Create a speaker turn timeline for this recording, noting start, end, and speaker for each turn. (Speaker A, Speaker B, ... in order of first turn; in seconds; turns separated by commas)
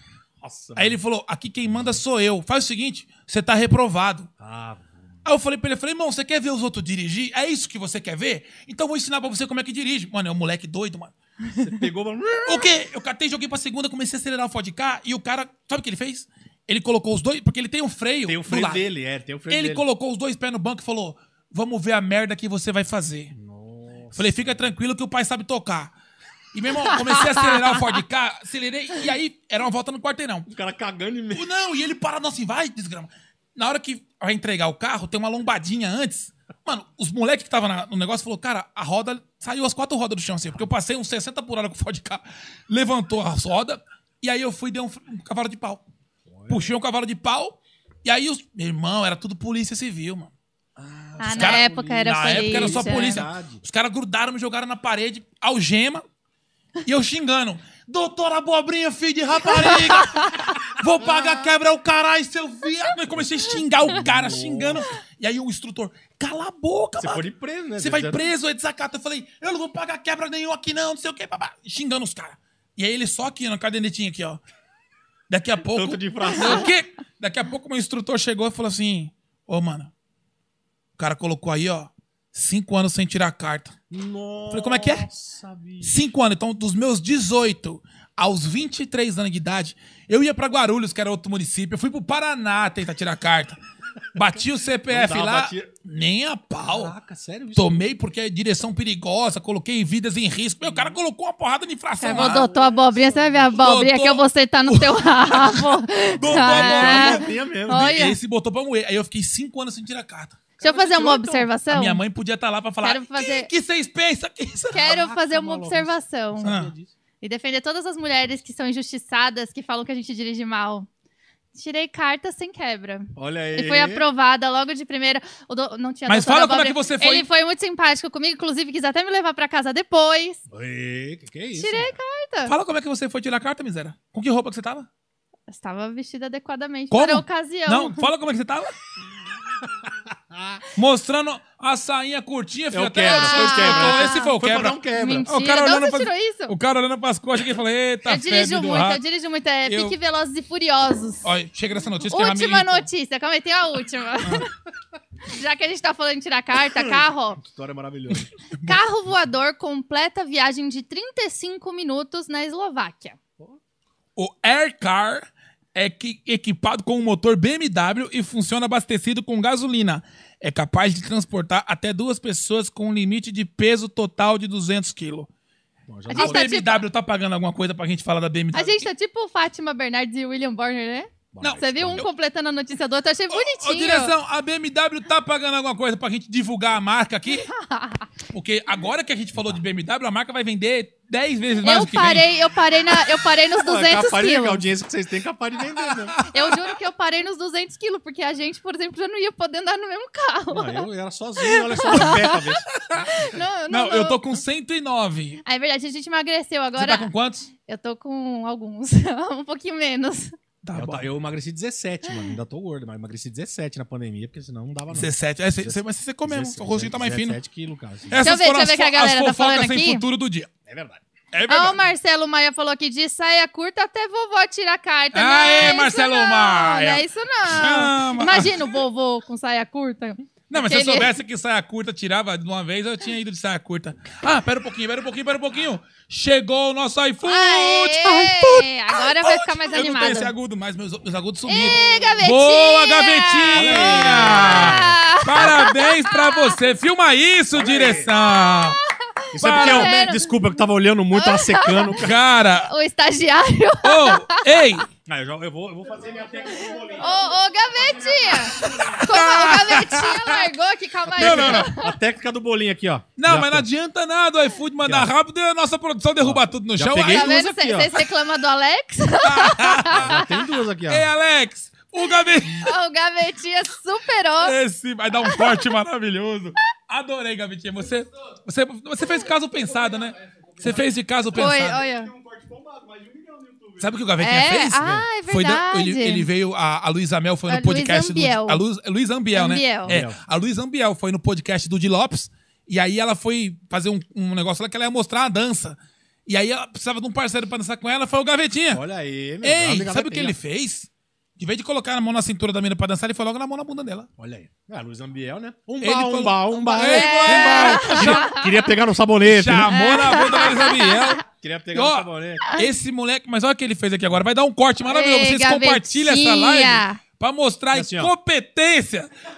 Speaker A: 0.4-1.0, Speaker B: 0.8-4.3, Speaker A: 4.4-5.2, Speaker B: 5.2-11.1, Speaker A: 11.6-12.7, Speaker B: 12.4-18.9, Speaker A: 18.2-19.8, Speaker B: 19.5-23.3, Speaker A: 23.3-24.7, Speaker B: 24.1-25.9, Speaker B: 26.5-30.5, Speaker A: 30.5-31.5, Speaker B: 31.3-45.8, Speaker A: 46.3-46.7, Speaker B: 46.5-50.3, Speaker A: 50.8-53.6, Speaker C: 51.2-53.1, Speaker B: 51.2-56.0, Speaker B: 56.8-67.2, Speaker A: 61.0-61.5, Speaker A: 63.9-64.8, Speaker A: 67.0-68.3, Speaker B: 67.8-74.4, Speaker B: 75.3-79.9, Speaker A: 75.7-76.7, Speaker B: 81.0-83.7, Speaker A: 83.9-86.0, Speaker B: 84.5-85.1, Speaker B: 85.8-93.6, Speaker B: 94.1-96.9, Speaker A: 94.9-95.7, Speaker A: 96.6-97.8, Speaker B: 97.5-102.5, Speaker A: 100.6-101.0, Speaker C: 102.0-108.2, Speaker A: 102.0-103.7, Speaker B: 103.5-115.0, Speaker A: 106.1-108.0, Speaker A: 110.6-111.4, Speaker C: 110.6-112.0, Speaker C: 112.8-113.5, Speaker C: 114.7-116.5, Speaker A: 114.8-116.9, Speaker B: 116.4-116.7, Speaker C: 117.2-120.9, Speaker C: 121.5-130.4, Speaker A: 123.2-124.0, Speaker B: 126.1-127.3, Speaker A: 130.5-131.9, Speaker C: 131.5-132.5, Speaker B: 132.4-134.9, Speaker C: 135.5-138.1, Speaker B: 136.9-138.7, Speaker A: 139.8-140.6, Speaker B: 140.7-149.0, Speaker A: 142.7-145.3, Speaker C: 143.0-144.3, Speaker C: 144.9-146.5, Speaker C: 148.1-151.3, Speaker B: 149.7-149.9, Speaker B: 151.2-152.9, Speaker C: 152.1-154.5, Speaker C: 155.3-157.4, Speaker A: 156.7-158.3, Speaker C: 158.6-163.2, Speaker B: 164.2-175.3, Speaker A: 175.9-176.5, Speaker C: 176.1-176.8, Speaker B: 176.1-178.9, Speaker C: 178.5-184.1, Speaker A: 181.3-182.1, Speaker B: 181.4-182.1, Speaker B: 183.3-187.5, Speaker C: 187.5-188.1, Speaker B: 188.3-192.3, Speaker A: 189.3-189.6, Speaker C: 191.6-194.6, Speaker A: 193.5-196.2, Speaker B: 196.2-196.5, Speaker C: 196.3-200.9, Speaker A: 200.5-203.0, Speaker C: 201.4-202.3, Speaker B: 202.7-203.1, Speaker C: 203.0-204.2, Speaker B: 203.7-205.4, Speaker C: 205.4-207.1, Speaker B: 206.8-207.5, Speaker C: 207.7-210.3, Speaker B: 210.6-211.1, Speaker A: 210.7-218.3, Speaker B: 214.9-217.4, Speaker B: 218.1-220.5, Speaker C: 218.2-220.0, Speaker A: 220.7-221.0, Speaker B: 221.3-221.8, Speaker C: 221.5-231.1, Speaker B: 225.1-228.8, Speaker B: 230.5-248.8, Speaker C: 237.2-240.3, Speaker C: 241.4-246.5, Speaker A: 243.5-245.5, Speaker A: 247.5-248.1, Speaker C: 248.4-248.7, Speaker C: 249.3-250.3, Speaker A: 249.3-252.2, Speaker B: 249.4-249.9, Speaker C: 251.1-252.0, Speaker B: 252.0-252.7, Speaker C: 252.7-254.4, Speaker B: 253.8-254.9, Speaker A: 255.0-257.1, Speaker C: 256.9-261.9, Speaker B: 258.6-260.4, Speaker A: 261.0-263.7, Speaker B: 261.2-261.7, Speaker B: 263.2-267.3, Speaker A: 264.8-265.1, Speaker A: 266.2-267.9, Speaker C: 267.0-270.2, Speaker B: 269.2-270.1, Speaker A: 269.9-271.1, Speaker B: 270.9-272.7, Speaker C: 272.6-274.5, Speaker B: 274.4-281.9, Speaker C: 275.2-275.5, Speaker C: 281.3-282.1, Speaker A: 282.3-283.7, Speaker B: 283.8-298.8, Speaker C: 284.2-286.3, Speaker C: 287.5-288.6, Speaker C: 289.3-289.9, Speaker A: 289.9-290.2, Speaker A: 298.7-300.4, Speaker B: 299.4-304.1, Speaker A: 304.2-309.9, Speaker B: 305.8-308.4, Speaker C: 306.7-308.4, Speaker B: 309.2-311.2, Speaker C: 309.7-311.1, Speaker A: 311.3-312.5, Speaker B: 311.7-319.1, Speaker C: 314.9-317.0, Speaker A: 317.7-318.1